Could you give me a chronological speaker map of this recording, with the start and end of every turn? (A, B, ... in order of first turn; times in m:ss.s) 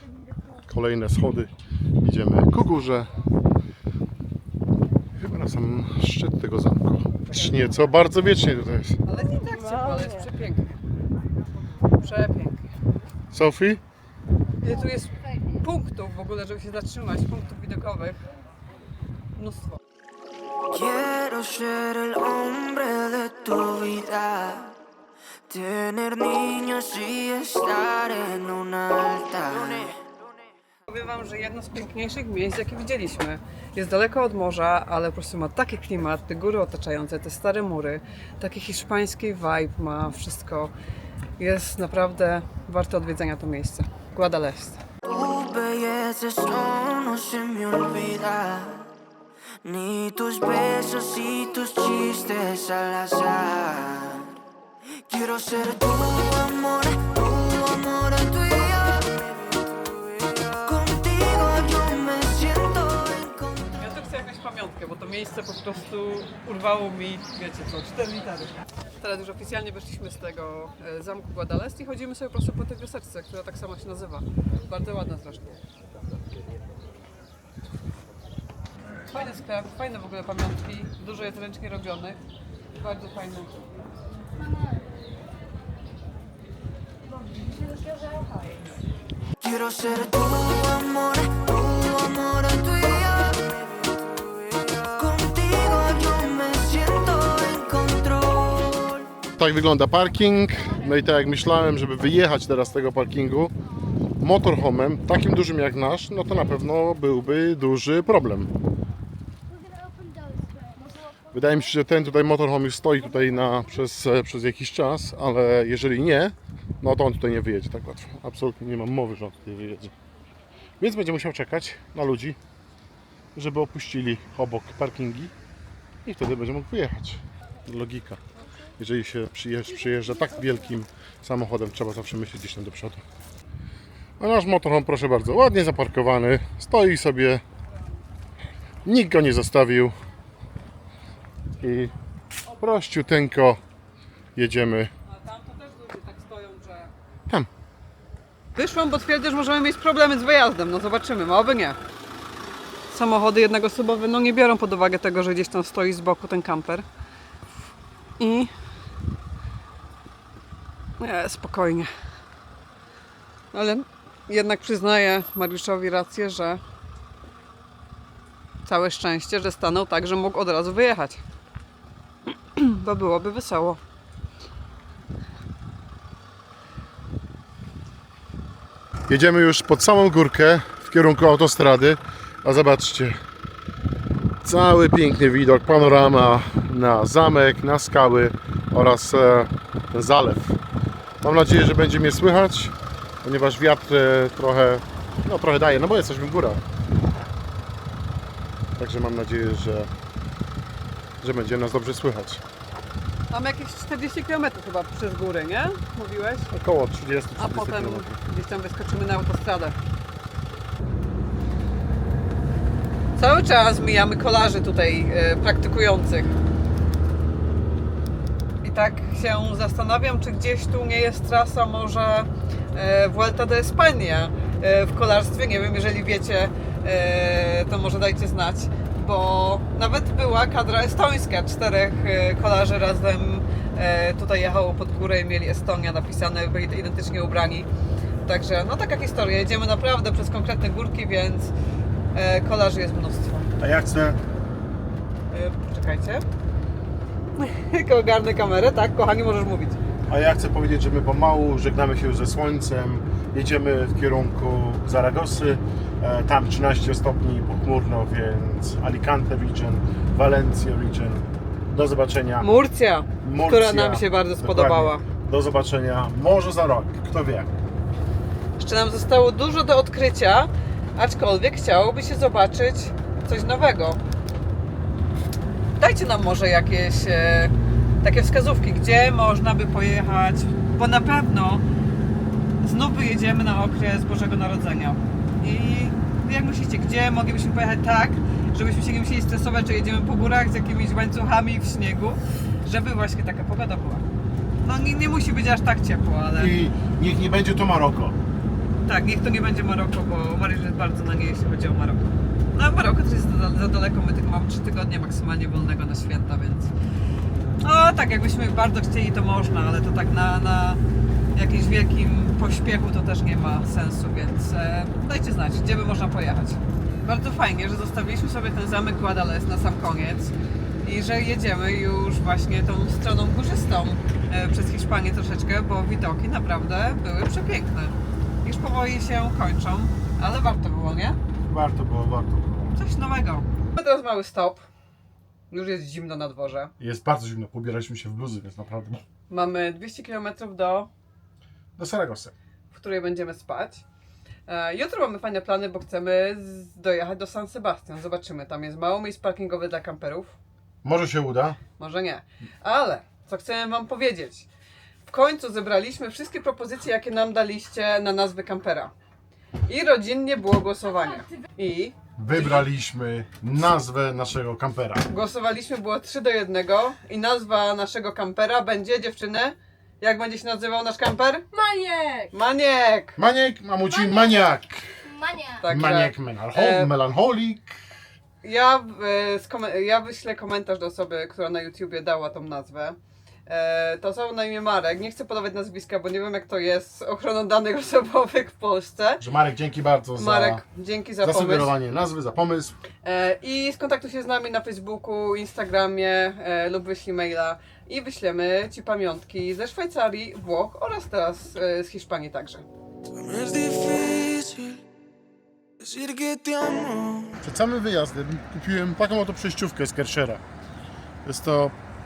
0:00.7-0:03.1 A
0:05.2-0:09.0 A
0:09.1-0:10.8 B
0:12.0-0:12.6 B
0:13.3-0:13.8 A
0:14.6-0:18.2 B
0:19.4-0:19.8 B
0:20.7-0:24.8 C
0:25.5-0:30.0 C
0:30.9-0:40.7 B
0:41.4-0:44.8 B
0:45.0-0:48.9 C
0:49.6-0:54.4 C
0:55.1-1:03.8 C
1:03.8-1:15.5 B
1:19.1-1:22.2 B
1:22.8-1:23.5 B
1:29.4-1:39.1 C
1:39.4-1:43.5 A
1:44.2-1:48.5 A
1:51.3-1:59.9 A
2:00.8-2:02.4 A
2:03.4-2:05.3 A
2:06.0-2:08.2 A
2:08.8-2:13.0 A
2:14.2-2:17.4 A
2:18.8-2:19.9 A
2:21.6-2:21.9 A
2:22.5-2:23.6 A
2:24.4-2:24.9 A
2:25.1-2:26.9 B
2:28.6-2:31.8 B
2:32.9-2:36.8 B
2:38.2-2:38.5 B
2:41.0-2:41.9 B
2:43.5-2:46.6 B
2:48.6-2:51.2 B
2:52.5-2:53.8 B
2:59.1-3:03.2 A
3:04.4-3:10.6 A
3:11.2-3:16.6 A
3:18.8-3:19.9 A
3:21.2-3:22.4 A
3:23.3-3:26.5 B
3:26.5-3:28.2 A
3:27.4-3:29.8 B
3:33.2-3:36.4 B
3:38.6-3:57.7 B
3:58.2-4:01.5 B
4:02.1-4:03.5 B
4:03.6-4:04.2 A
4:05.3-4:06.2 B
4:07.4-4:09.8 B
4:10.1-4:22.5 A
4:22.4-4:25.0 B
4:23.2-4:27.5 A
4:28.6-4:34.0 B
4:35.8-4:41.6 B
4:42.6-4:54.0 B
4:54.6-4:56.6 B
4:56.4-4:58.2 A
4:58.8-5:06.7 B
5:07.6-5:10.8 B
5:11.4-5:31.2 B
5:31.5-5:32.7 A
5:32.8-5:34.6 B
5:35.5-5:36.7 B
5:36.8-5:39.0 A
5:39.3-5:40.9 B
5:41.8-5:42.3 A
5:42.7-5:43.8 B
5:44.5-5:50.4 B
5:50.8-5:51.6 A
5:51.8-5:54.5 B
5:55.1-5:58.9 B
5:59.7-6:02.0 B
6:02.2-6:05.1 A
6:05.1-6:13.2 B
6:13.2-6:17.7 A
6:15.6-6:16.9 B
6:18.4-6:29.2 B
6:29.2-6:30.6 A
6:30.2-6:31.7 B
6:31.2-6:32.8 A
6:33.0-6:42.6 B
6:43.2-6:44.8 C
6:45.8-6:47.4 C
6:47.4-6:50.4 A
6:51.2-6:51.8 A